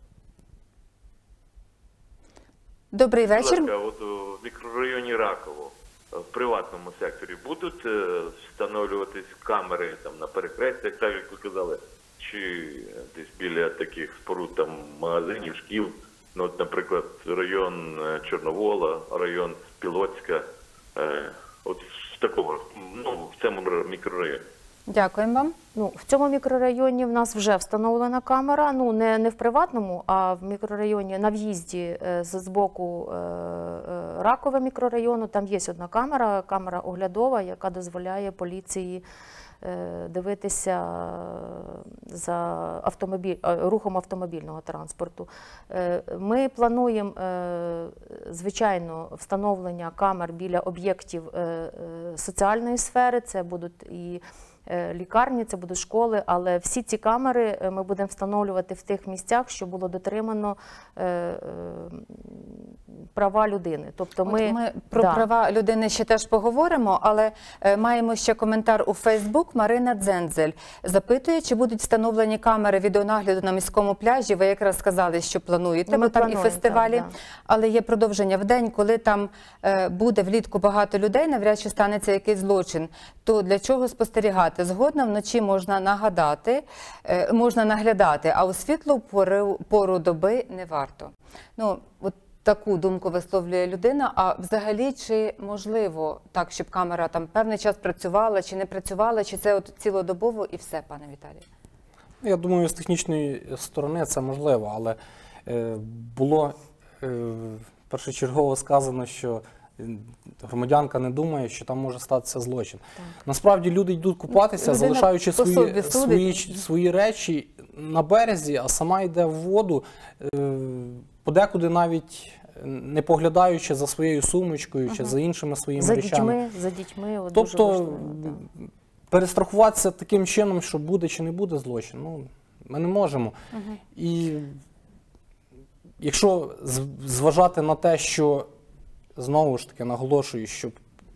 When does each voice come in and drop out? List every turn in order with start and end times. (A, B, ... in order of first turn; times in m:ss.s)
0:02.9-0:03.7 A
0:03.3-0:24.4 B
0:24.9-0:25.6 A
0:25.8-0:39.0 C
0:39.6-1:02.5 C
1:03.2-1:05.3 C
1:04.3-1:41.4 A
1:15.9-1:17.1 C
1:42.2-2:06.4 D
1:54.3-1:56.3 A
2:05.8-2:08.4 C
2:07.3-2:13.4 D
2:13.5-2:13.8 A
2:14.0-2:14.6 D
2:16.0-2:18.5 D
2:19.2-2:20.8 D